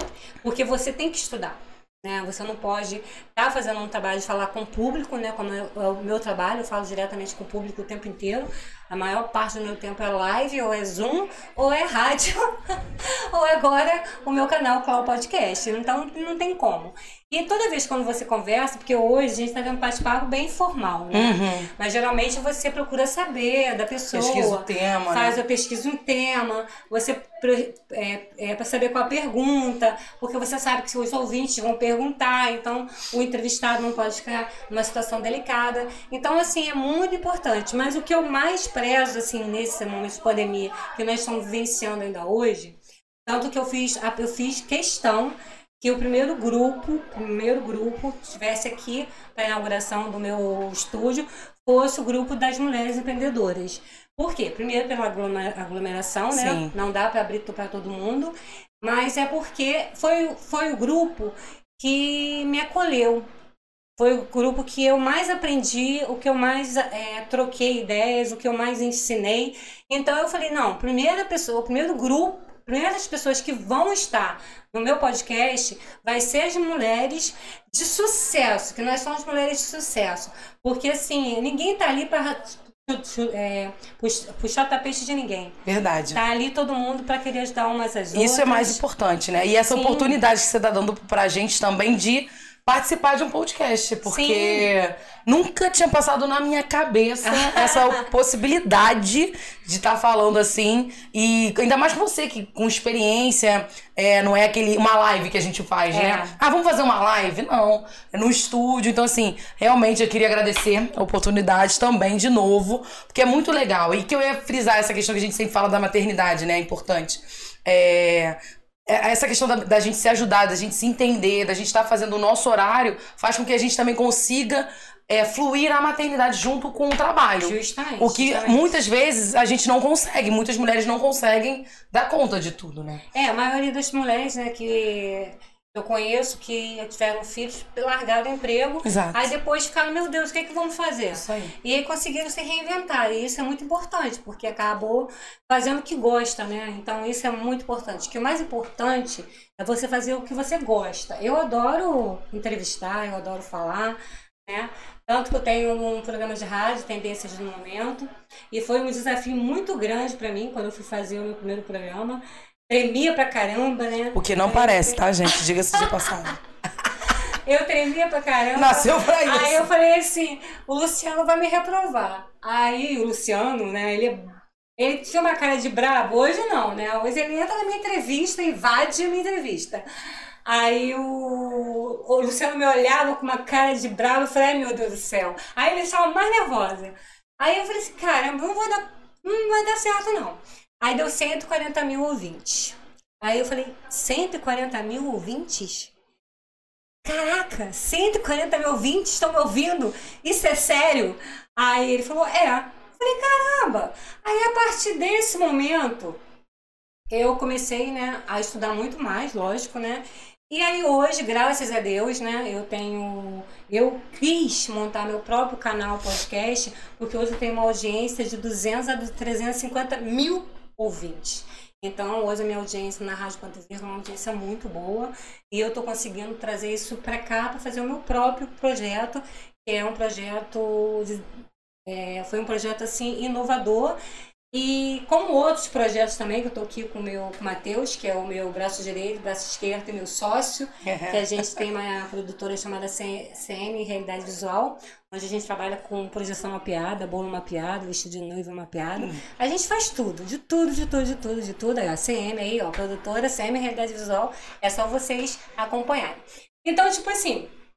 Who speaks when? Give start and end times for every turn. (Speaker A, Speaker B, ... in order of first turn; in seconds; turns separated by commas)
Speaker A: 0.4-63.2, Speaker B: 21.1-21.7, Speaker B: 24.1-25.4, Speaker B: 56.3-56.7, Speaker A: 64.0-85.6, Speaker B: 85.6-86.2, Speaker A: 86.1-88.8, Speaker B: 88.1-133.0, Speaker A: 89.7-90.2, Speaker A: 94.0-94.7, Speaker A: 97.2-98.1, Speaker A: 105.9-106.3, Speaker A: 127.4-128.7, Speaker A: 133.1-165.0, Speaker B: 138.8-139.2, Speaker B: 141.1-141.5, Speaker B: 164.1-166.3, Speaker A: 167.1-179.8, Speaker B: 168.6-169.7, Speaker A: 180.4-195.9, Speaker A: 197.0-206.2, Speaker A: 207.1-231.3, Speaker A: 231.8-233.9, Speaker A: 234.5-257.5, Speaker B: 240.8-241.6